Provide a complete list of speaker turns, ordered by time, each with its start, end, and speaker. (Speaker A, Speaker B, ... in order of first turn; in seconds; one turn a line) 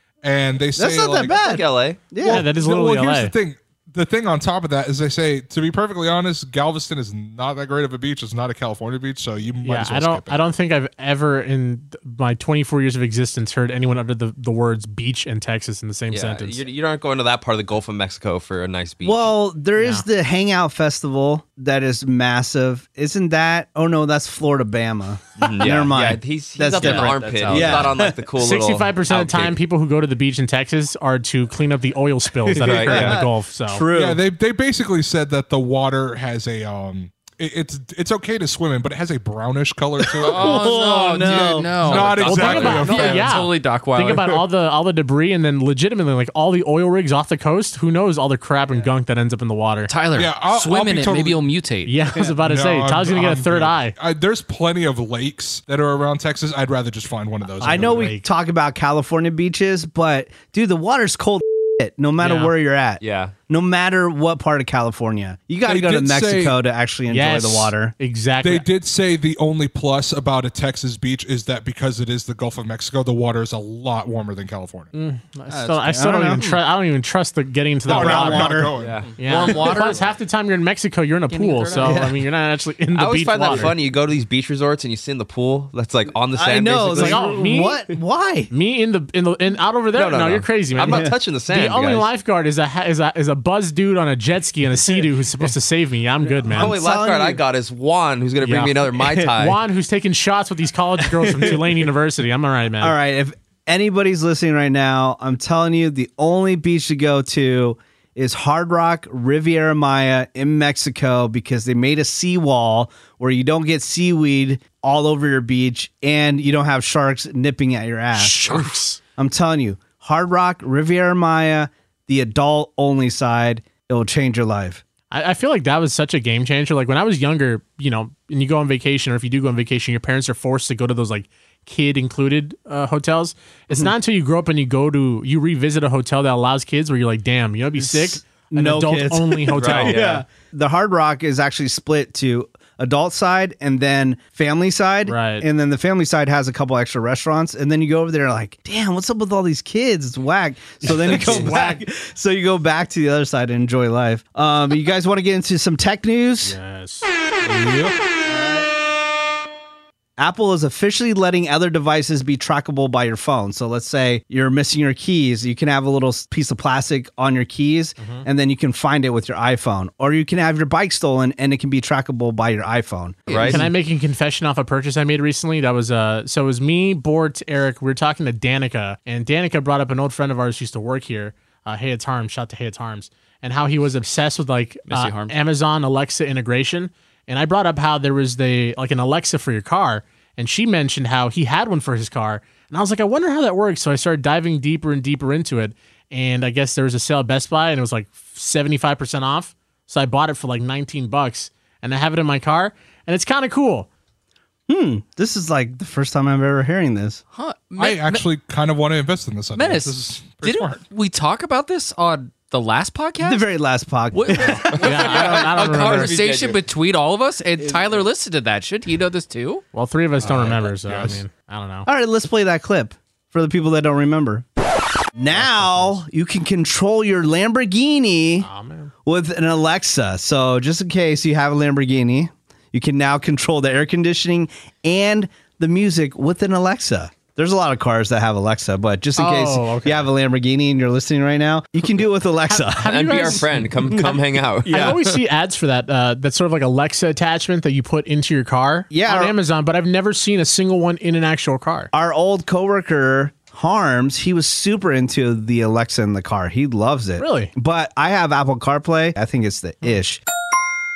Speaker A: 0.2-1.3
Speaker B: 0.8-2.5
Speaker C: 1.2-2.1
Speaker A: 2.2-10.4
Speaker D: 2.2-3.3
Speaker D: 9.6-16.6
Speaker C: 16.1-19.3
Speaker B: 19.0-28.2
Speaker D: 19.8-20.0
Speaker C: 25.4-29.6
Speaker E: 26.8-27.9
Speaker D: 28.4-33.8
Speaker B: 32.5-34.2
Speaker C: 32.5-33.2
Speaker A: 33.9-40.7
Speaker B: 40.1-42.1
Speaker E: 40.2-44.4
Speaker A: 41.2-43.4
Speaker D: 42.2-49.9
Speaker E: 49.9-51.9
Speaker A: 50.1-51.4
Speaker D: 51.8-53.9
Speaker A: 52.3-58.1
Speaker D: 57.6-58.2
Speaker B: 57.6-67.9
Speaker D: 62.2-62.5
Speaker C: 63.0-63.3
Speaker A: 65.6-66.5
Speaker D: 67.1-68.7
Speaker A: 68.4-74.9
Speaker D: 74.9-83.8
Speaker E: 75.5-76.0
Speaker B: 75.9-76.6
Speaker A: 77.8-79.0
Speaker B: 77.9-78.7
Speaker C: 78.8-79.9
Speaker E: 79.1-80.0
Speaker C: 81.3-82.0
Speaker B: 81.8-82.2
Speaker C: 82.9-87.3
Speaker B: 86.3-88.5
Speaker D: 86.9-87.8
Speaker D: 88.5-96.8
Speaker C: 89.9-92.1
Speaker B: 90.8-91.1
Speaker B: 96.4-97.4
Speaker C: 96.5-99.6
Speaker D: 98.4-102.9
Speaker B: 99.0-99.2
Speaker B: 101.2-101.6
Speaker B: 102.8-124.8
Speaker D: 118.1-119.0
Speaker D: 125.1-140.2
Speaker B: 137.8-156.6
Speaker C: 139.5-140.2
Speaker D: 145.1-145.4
Speaker D: 150.8-151.8
Speaker D: 156.4-157.9
Speaker B: 158.2-158.7
Speaker B: 160.2-173.3
Speaker D: 168.0-168.2
Speaker E: 173.3-173.6
Speaker C: 173.3-173.7
Speaker D: 173.5-203.9
Speaker E: 184.9-185.3
Speaker B: 204.7-207.2
Speaker E: 207.3-208.2
Speaker A: 207.8-210.8
Speaker E: 209.6-213.4
Speaker B: 213.2-214.9
Speaker E: 214.1-219.6
Speaker D: 214.4-216.2
Speaker C: 214.7-216.6
Speaker D: 219.7-221.9
Speaker A: 220.2-221.2
Speaker B: 221.8-224.4
Speaker B: 225.2-228.5
Speaker D: 225.3-226.0
Speaker D: 228.4-228.9
Speaker B: 229.0-244.1
Speaker D: 239.2-240.1
Speaker D: 242.5-244.1
Speaker C: 242.8-245.0
Speaker B: 244.6-245.0
Speaker D: 244.7-251.9
Speaker B: 248.9-249.3
Speaker B: 251.9-260.2
Speaker D: 257.2-257.5